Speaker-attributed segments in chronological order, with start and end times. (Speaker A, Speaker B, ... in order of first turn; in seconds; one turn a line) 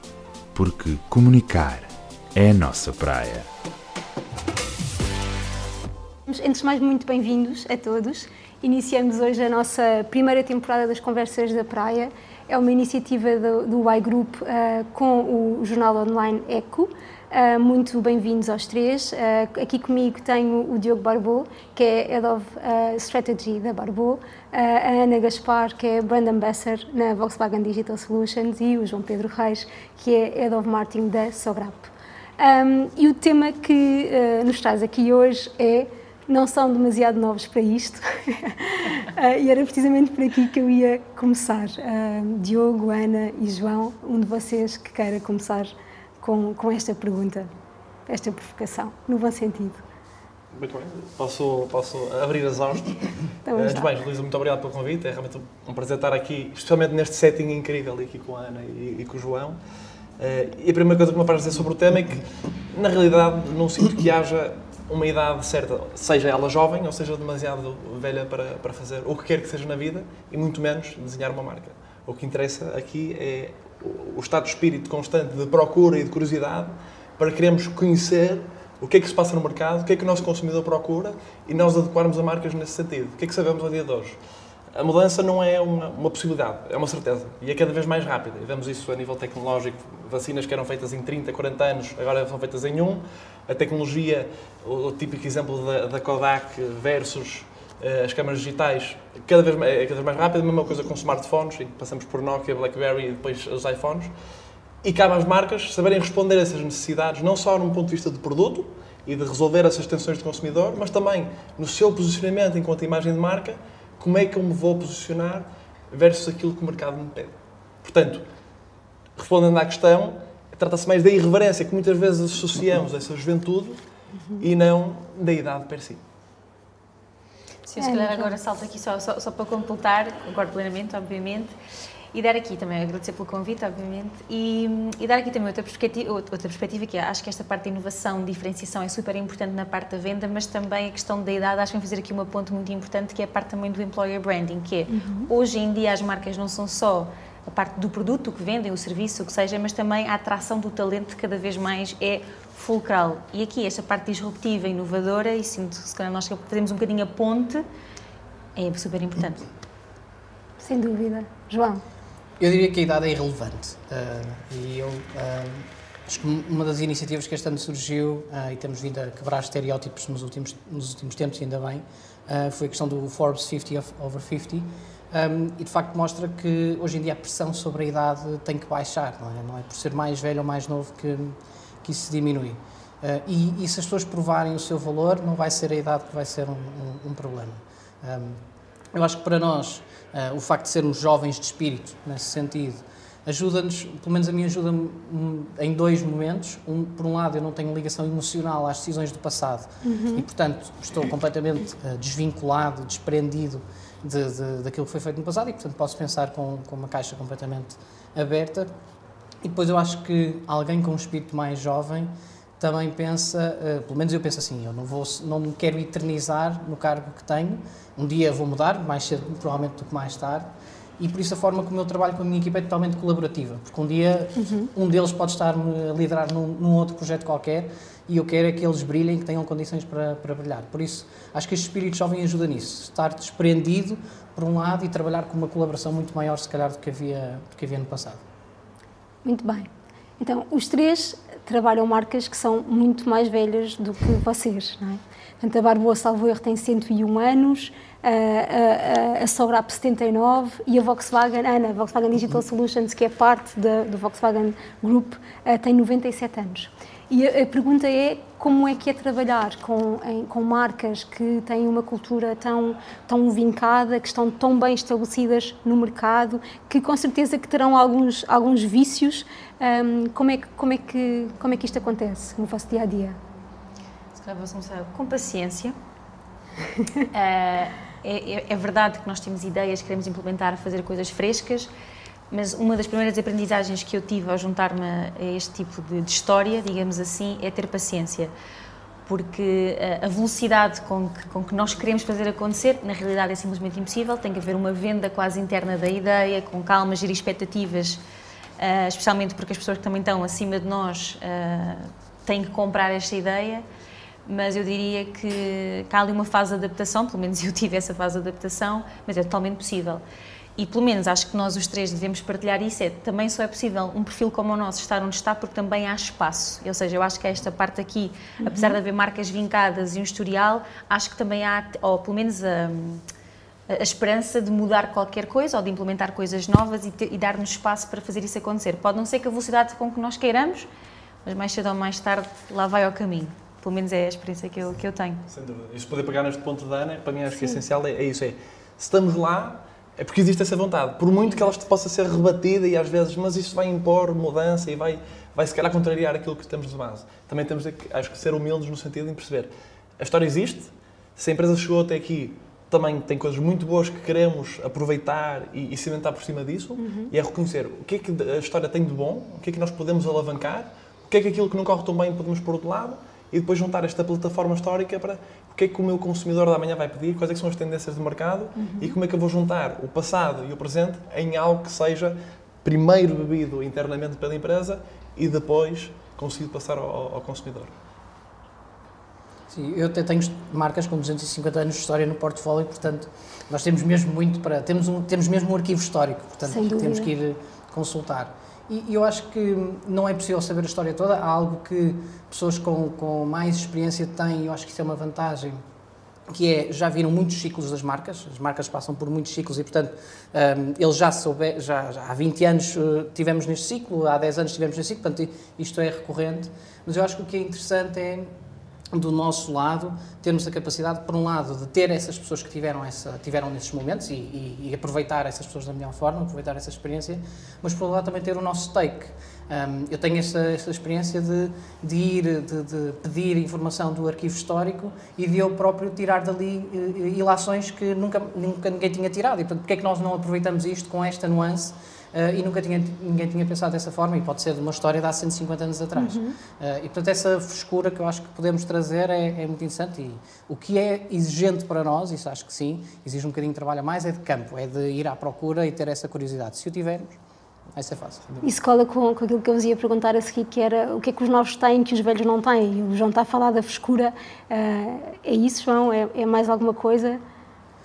Speaker A: 0.5-3.5
Speaker B: 6.3-47.5
Speaker B: 48.1-49.8
Speaker C: 50.5-59.6
Speaker B: 53.5-53.9
Speaker C: 60.2-84.2
Speaker C: 84.7-104.1
Speaker C: 104.8-118.2
Speaker C: 119.2-123.8
Speaker C: 124.4-126.0
Speaker D: 127.7-131.6
Speaker B: 127.8-128.3
Speaker D: 132.1-157.6
Speaker B: 144.9-145.3
Speaker D: 158.6-159.4
Speaker B: 160.6-161.8
Speaker E: 162.4-188.4
Speaker E: 188.9-208.7
Speaker B: 199.8-200.2
Speaker E: 209.4-220.5
Speaker E: 221.0-238.2
Speaker B: 224.4-224.7
Speaker B: 239.2-273.2
Speaker D: 274.1-275.8
Speaker D: 277.1-281.7
Speaker D: 282.3-288.3
Speaker D: 289.1-298.0
Speaker D: 298.6-303.6
Speaker D: 304.3-310.0
Speaker D: 310.6-323.0
Speaker B: 318.4-318.8
Speaker D: 323.7-330.7
Speaker D: 331.2-335.2
Speaker C: 335.3-377.7
Speaker B: 356.8-357.1
Speaker B: 368.6-368.9
Speaker E: 379.5-395.6
Speaker B: 386.5-387.1
Speaker E: 396.3-408.3
Speaker E: 408.9-447.2
Speaker B: 436.0-436.4
Speaker E: 447.8-448.2
Speaker B: 448.4-457.2